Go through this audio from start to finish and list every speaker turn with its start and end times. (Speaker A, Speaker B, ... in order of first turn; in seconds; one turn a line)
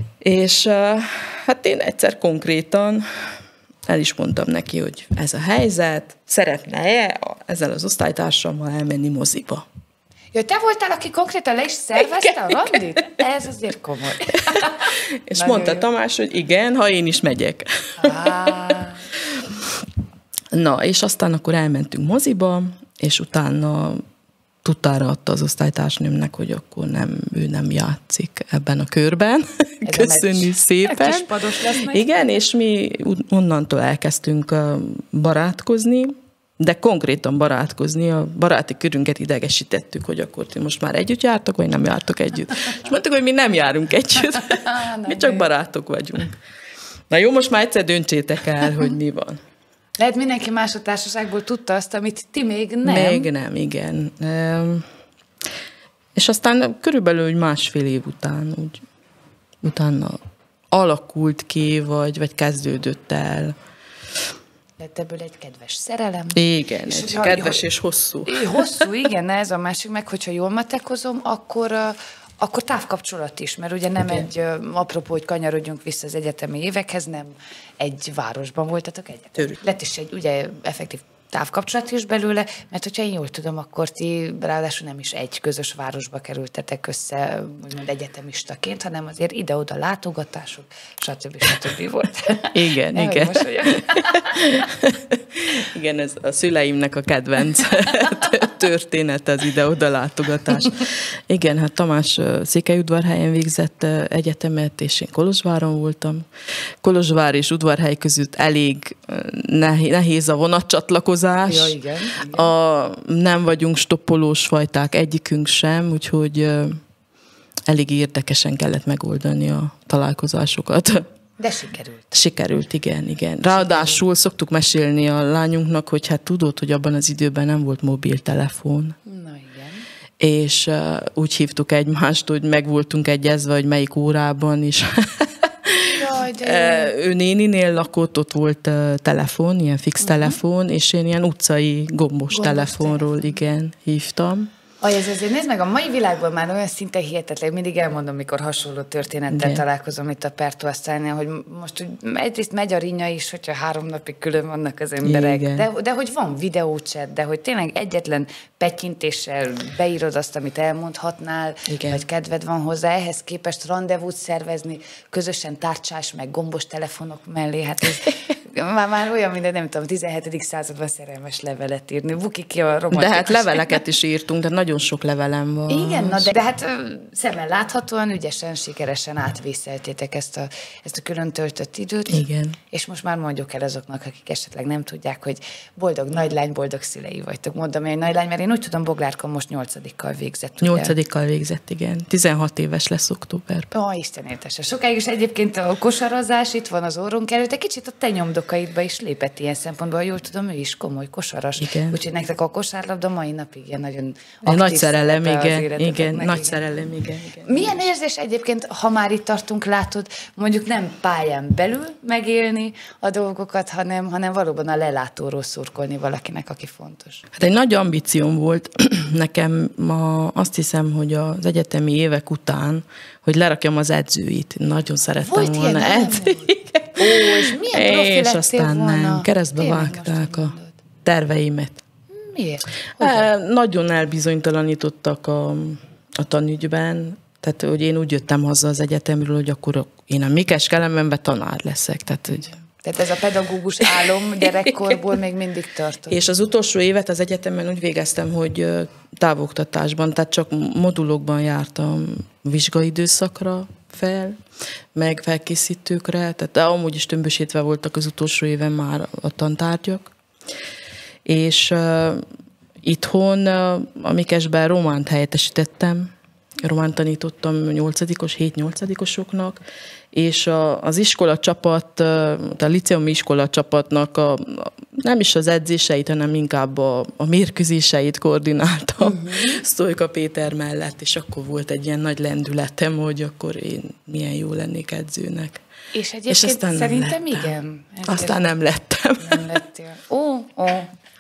Speaker A: 0.2-3.1
Speaker A: 3.9-9.7
Speaker B: 10.3-15.8
Speaker A: 12.2-13.1
Speaker A: 14.3-18.6
Speaker B: 18.0-19.1
Speaker A: 20.5-24.0
Speaker A: 24.6-31.3
Speaker B: 29.9-32.2
Speaker A: 31.9-46.4
Speaker B: 44.3-45.5
Speaker A: 47.1-49.4
Speaker B: 50.0-53.3
Speaker A: 52.8-54.9
Speaker A: 56.2-58.8
Speaker A: 59.6-60.2
Speaker A: 60.7-63.5
Speaker B: 64.8-67.7
Speaker A: 66.3-68.9
Speaker B: 68.3-94.4
Speaker A: 92.5-106.2
Speaker A: 106.8-116.8
Speaker B: 111.5-112.5
Speaker A: 117.7-121.1
Speaker B: 121.4-122.1
Speaker A: 122.1-129.0
Speaker B: 123.5-124.0
Speaker B: 129.1-129.9
Speaker A: 130.2-144.5
Speaker B: 135.9-136.9
Speaker B: 140.0-140.4
Speaker B: 142.3-143.2
Speaker B: 144.8-173.8
Speaker A: 149.3-149.6
Speaker A: 155.0-155.7
Speaker A: 161.7-162.0
Speaker A: 172.9-176.3
Speaker B: 175.7-190.9
Speaker A: 182.1-182.6
Speaker A: 190.6-193.7
Speaker B: 193.7-206.6
Speaker A: 201.6-202.0
Speaker A: 204.4-207.8
Speaker B: 207.4-217.2
Speaker A: 217.3-231.8
Speaker B: 225.2-230.8
Speaker B: 232.1-233.3
Speaker A: 233.0-242.6
Speaker B: 242.8-246.2
Speaker A: 246.1-254.4
Speaker A: 254.9-260.1
Speaker A: 261.2-262.2
Speaker A: 262.8-266.1
Speaker A: 266.6-269.6
Speaker A: 270.1-285.6
Speaker B: 279.0-279.6
Speaker B: 285.9-288.5
Speaker A: 286.3-287.5
Speaker A: 288.1-289.6
Speaker B: 289.2-290.9